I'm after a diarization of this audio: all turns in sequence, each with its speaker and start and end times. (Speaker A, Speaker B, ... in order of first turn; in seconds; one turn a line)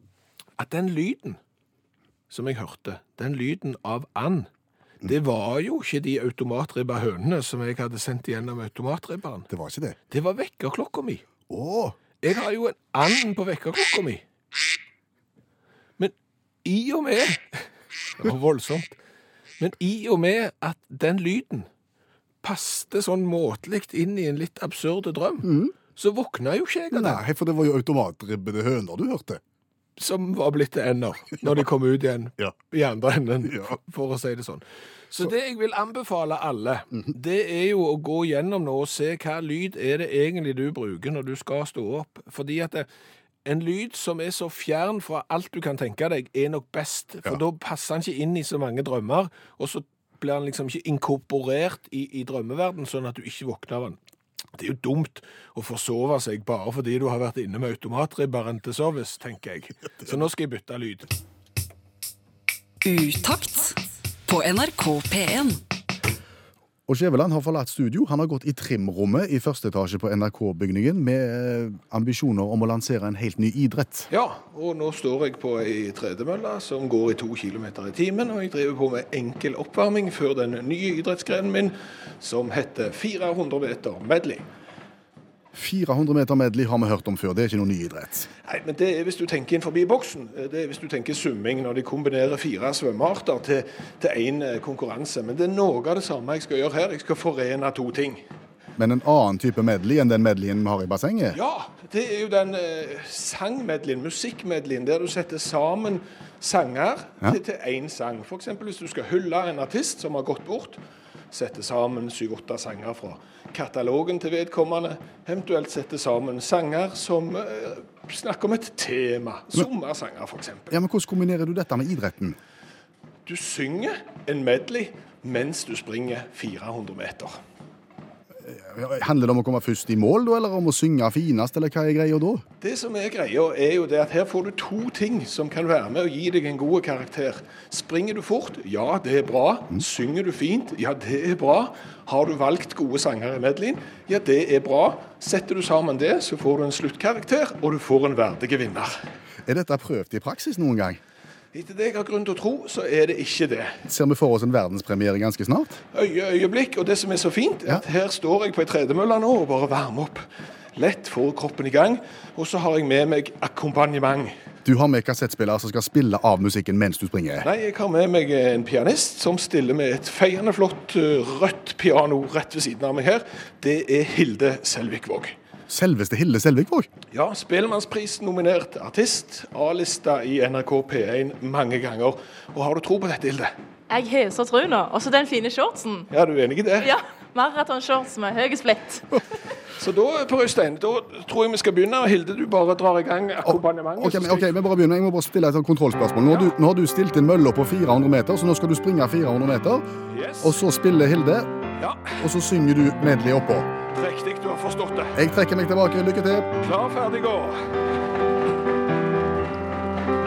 Speaker A: 0.6-1.4
Speaker A: 2.3-4.5
Speaker A: 5.0-9.5
Speaker B: 9.5-10.0
Speaker A: 10.1-11.2
Speaker B: 11.5-12.0
Speaker A: 12.2-14.2
Speaker A: 16.0-18.9
Speaker A: 19.6-21.7
Speaker A: 22.4-27.2
Speaker B: 25.4-25.7
Speaker B: 26.9-29.4
Speaker A: 30.0-42.9
Speaker B: 33.4-33.7
Speaker A: 43.4-54.0
Speaker A: 54.5-61.1
Speaker C: 62.8-65.6
Speaker B: 66.9-74.1
Speaker A: 74.1-84.4
Speaker B: 85.5-88.3
Speaker A: 88.4-98.2
Speaker B: 98.8-101.4
Speaker A: 101.3-110.8
Speaker A: 111.3-120.8
Speaker B: 120.7-122.4
Speaker A: 123.2-127.4
Speaker B: 128.4-132.4
Speaker A: 132.6-149.0
Speaker B: 149.4-151.0
Speaker A: 151.5-153.8
Speaker B: 153.8-155.8
Speaker A: 155.9-160.2
Speaker A: 160.7-164.3
Speaker B: 164.6-167.5
Speaker A: 167.4-175.3
Speaker B: 175.7-176.9
Speaker A: 177.1-183.5
Speaker D: 183.9-186.1
Speaker A: 186.1-186.9
Speaker D: 186.8-189.2
Speaker A: 189.8-194.5
Speaker B: 194.0-199.9
Speaker A: 196.3-196.5
Speaker A: 200.1-200.6
Speaker B: 200.4-201.5
Speaker A: 201.8-202.2
Speaker B: 202.2-203.7
Speaker A: 203.9-205.2
Speaker B: 205.1-206.5
Speaker A: 206.6-207.6